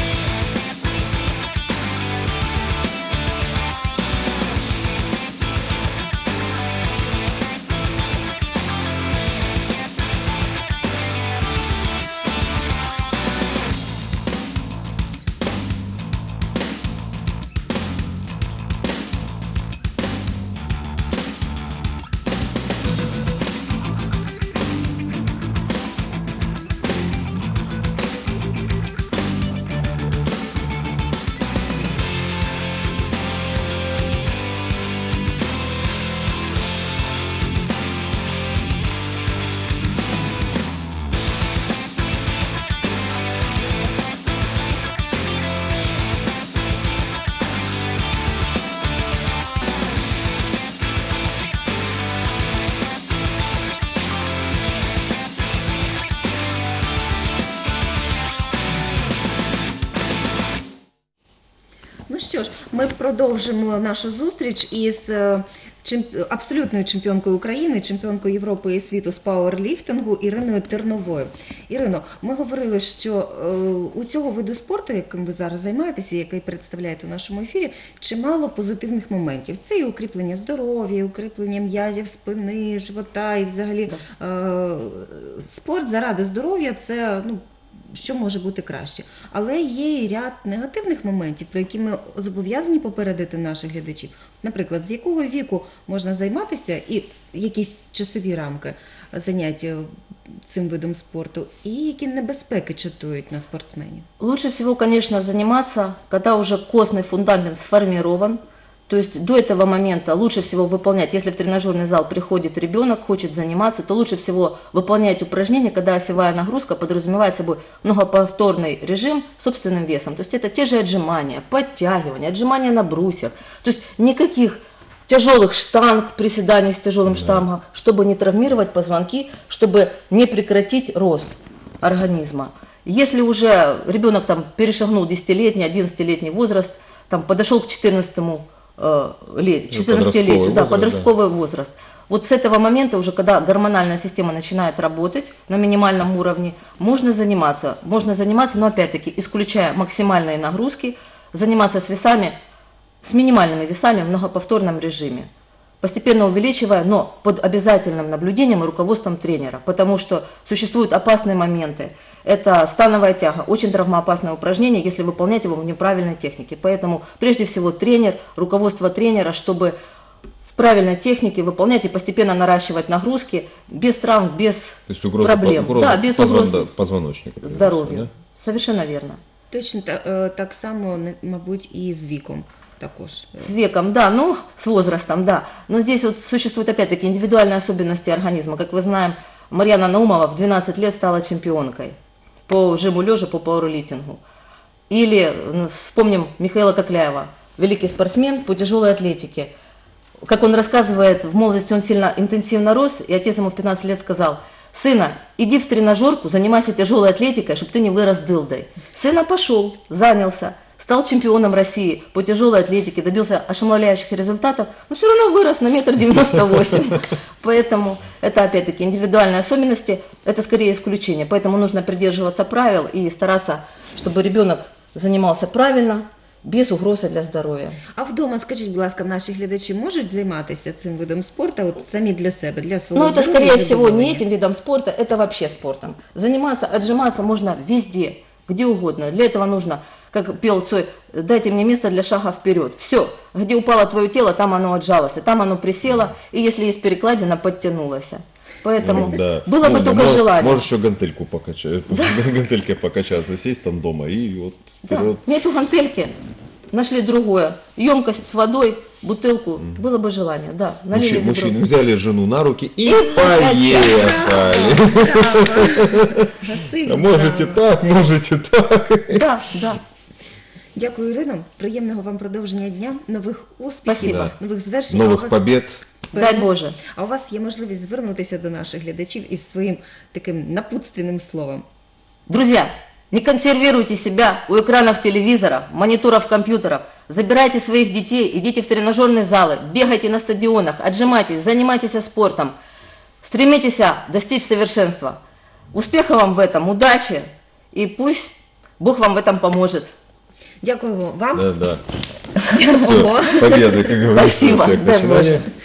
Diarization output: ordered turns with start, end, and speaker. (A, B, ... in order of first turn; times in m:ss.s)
1:02.1-1:39.9 A
1:40.4-1:44.1 A
1:44.2-2:32.3 B
2:07.1-2:07.4 C
2:19.7-2:21.1 C
2:33.0-2:35.3 B
2:35.8-2:49.7 B
2:50.5-2:56.7 B
2:54.9-2:58.1 C
2:57.4-2:59.2 B
2:59.5-3:03.5 A
3:03.4-3:11.9 B
3:12.5-3:14.2 B
3:14.9-3:19.5 B
3:20.2-3:47.8 B
3:48.0-3:54.2 A
3:52.9-4:10.6 B
4:08.8-4:15.2 C
4:14.9-4:16.2 B
4:16.7-4:21.6 B
4:20.9-4:26.3 C
4:22.8-4:24.2 B
4:23.8-4:27.6 A
4:26.8-4:29.2 C
4:29.1-4:29.8 B
4:30.7-4:35.4 A
4:33.8-4:34.3 B
4:34.0-4:34.3 C
4:34.9-4:35.8 C
4:36.1-4:41.6 A
4:36.1-4:36.8 B
4:42.3-4:52.5 B
4:53.2-4:55.2 B
4:55.7-4:59.9 B
5:00.6-5:01.5 A
5:01.3-5:01.8 C
5:02.5-5:04.1 A
5:02.8-5:05.5 C
5:04.0-5:05.4 B